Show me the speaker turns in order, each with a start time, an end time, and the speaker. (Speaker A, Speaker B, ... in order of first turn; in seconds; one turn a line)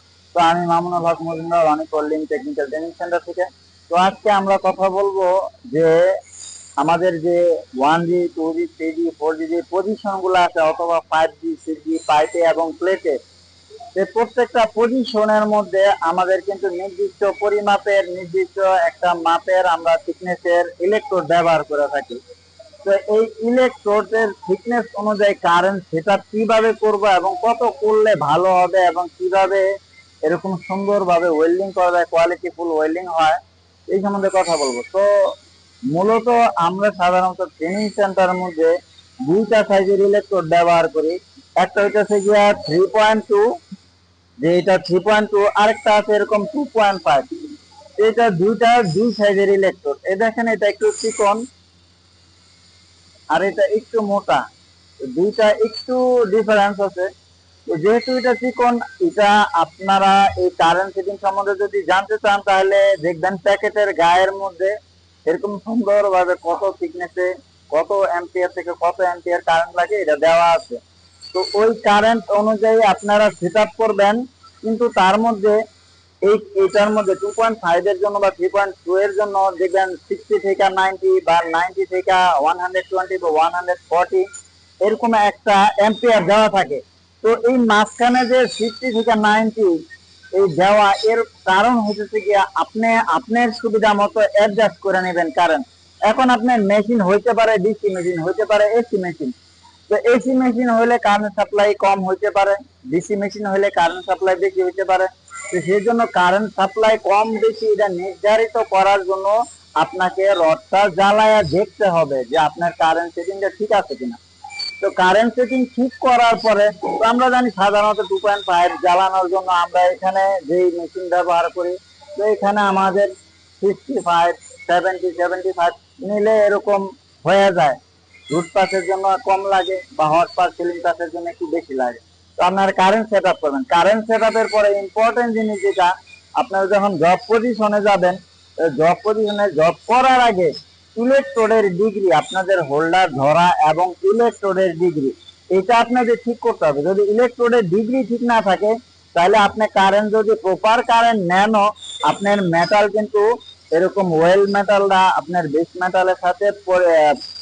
Speaker A: 0.3-6.1
Speaker A: 6.8-13.2
Speaker A: 13.9-22.2
Speaker A: 22.8-29.6
Speaker A: 30.2-35.3
Speaker A: 35.9-38.7
Speaker A: 39.2-43.4
Speaker A: 44.4-47.3
Speaker A: 48.0-51.4
Speaker A: 53.3-54.4
Speaker A: 55.1-57.1
Speaker A: 57.7-64.8
Speaker A: 65.3-70.8
Speaker A: 71.3-75.6
Speaker A: 76.2-84.3
Speaker A: 84.8-89.8
Speaker A: 90.3-99.3
Speaker A: 99.9-114.2
Speaker A: 114.8-127.8
Speaker A: 128.3-157.2